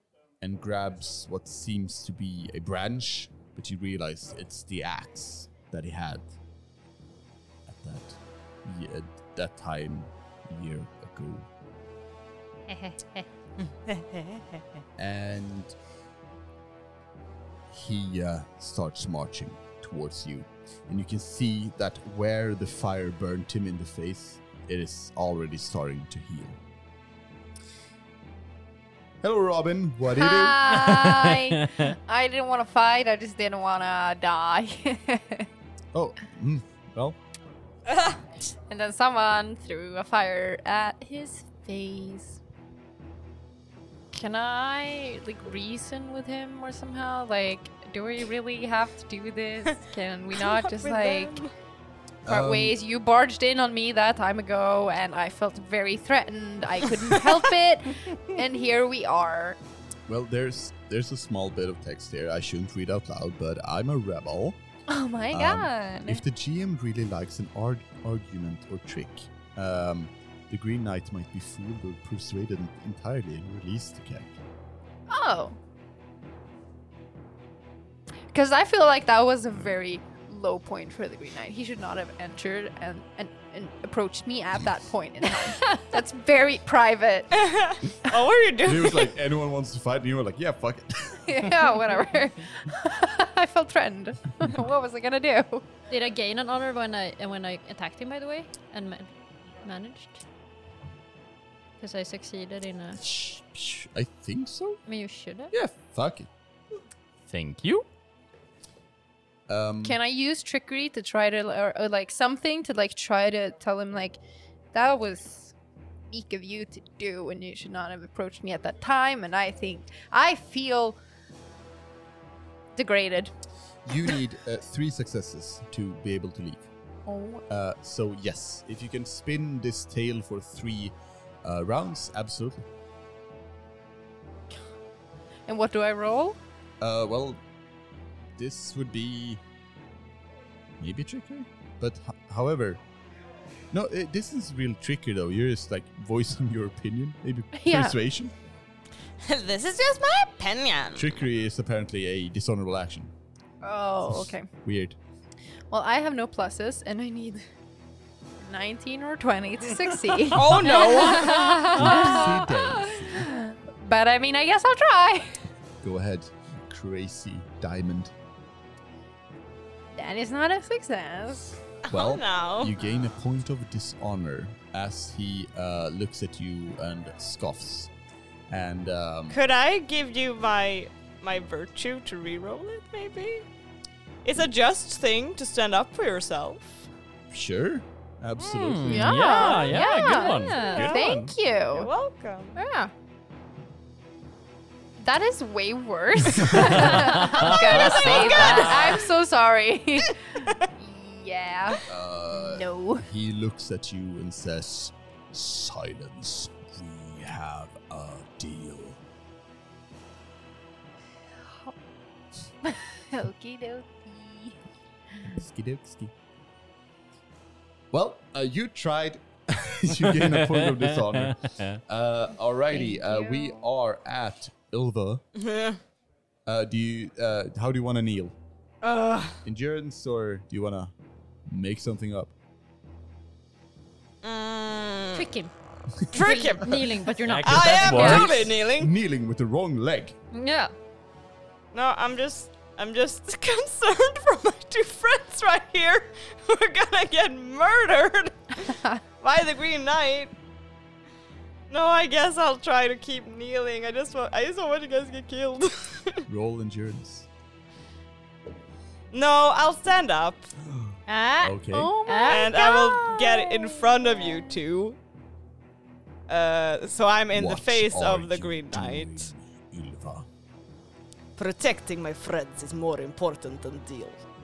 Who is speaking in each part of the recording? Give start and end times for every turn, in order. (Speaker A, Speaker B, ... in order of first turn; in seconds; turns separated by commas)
Speaker A: 0.4-6.3, Speaker A: 7.7-11.5, Speaker B: 12.7-13.2, Speaker C: 13.9-14.4, Speaker A: 15.0-15.7, Speaker A: 17.7-26.6, Speaker A: 29.2-30.8, Speaker D: 30.1-35.5, Speaker E: 30.7-31.9, Speaker A: 35.9-37.2, Speaker C: 37.9-38.2, Speaker D: 38.7-42.4, Speaker D: 44.1-51.4, Speaker C: 50.4-51.5, Speaker A: 52.2-52.7, Speaker D: 52.3-59.6, Speaker A: 60.1-64.6, Speaker D: 64.9-66.2, Speaker A: 65.3-74.3, Speaker D: 75.1-75.6, Speaker D: 78.3-87.5, Speaker C: 87.3-89.1, Speaker A: 88.6-91.6, Speaker D: 91.2-95.7, Speaker B: 95.9-99.1, Speaker B: 99.6-100.2, Speaker B: 101.8-103.0, Speaker A: 103.0-104.8, Speaker B: 104.8-105.5, Speaker A: 105.5-106.3, Speaker E: 107.3-107.8, Speaker A: 109.5-110.0, Speaker D: 109.8-114.2, Speaker D: 114.7-115.5, Speaker D: 116.1-121.0, Speaker D: 122.7-123.3, Speaker A: 123.8-126.7, Speaker D: 127.0-127.4, Speaker A: 127.5-132.7, Speaker D: 135.5-136.4, Speaker A: 136.8-137.4, Speaker A: 138.4-139.4, Speaker A: 140.8-142.8, Speaker A: 143.7-148.3, Speaker D: 147.5-147.9, Speaker C: 149.2-151.1, Speaker A: 150.9-153.1, Speaker D: 153.6-154.5, Speaker A: 154.1-155.0, Speaker D: 155.7-157.4, Speaker D: 158.4-165.4, Speaker C: 160.3-162.0, Speaker A: 161.6-163.3, Speaker A: 165.8-168.1, Speaker D: 169.9-171.6, Speaker C: 171.9-172.8, Speaker A: 171.9-177.9, Speaker A: 178.5-179.4, Speaker C: 179.3-183.4, Speaker C: 184.2-186.9, Speaker A: 187.3-189.3, Speaker E: 188.4-191.3, Speaker D: 188.8-191.9, Speaker B: 189.6-190.8, Speaker C: 190.6-191.1, Speaker C: 191.7-192.6, Speaker D: 192.6-192.9, Speaker D: 195.0-203.1, Speaker E: 196.8-198.7, Speaker C: 197.7-199.1, Speaker B: 198.4-198.7, Speaker A: 201.8-209.0, Speaker D: 211.4-211.7, Speaker D: 212.6-214.6, Speaker A: 215.3-216.1, Speaker A: 217.9-225.2, Speaker E: 220.1-221.8, Speaker D: 222.7-223.6, Speaker C: 225.3-225.8, Speaker A: 226.4-228.3, Speaker C: 228.8-229.4, Speaker A: 229.4-230.9, Speaker A: 231.5-232.3, Speaker C: 234.2-235.2, Speaker B: 235.1-235.5, Speaker B: 236.1-238.2, Speaker C: 236.1-236.9, Speaker E: 237.2-238.4, Speaker C: 237.4-238.9, Speaker A: 237.9-240.2, Speaker B: 240.3-240.7, Speaker C: 241.7-248.7, Speaker D: 248.7-249.0, Speaker C: 249.2-250.3, Speaker C: 251.7-256.2, Speaker A: 256.3-257.3, Speaker C: 259.1-260.5, Speaker A: 260.7-261.9, Speaker B: 261.1-262.5, Speaker D: 261.7-264.4, Speaker C: 262.2-265.0, Speaker C: 266.3-269.3, Speaker A: 267.3-270.3, Speaker C: 271.4-274.2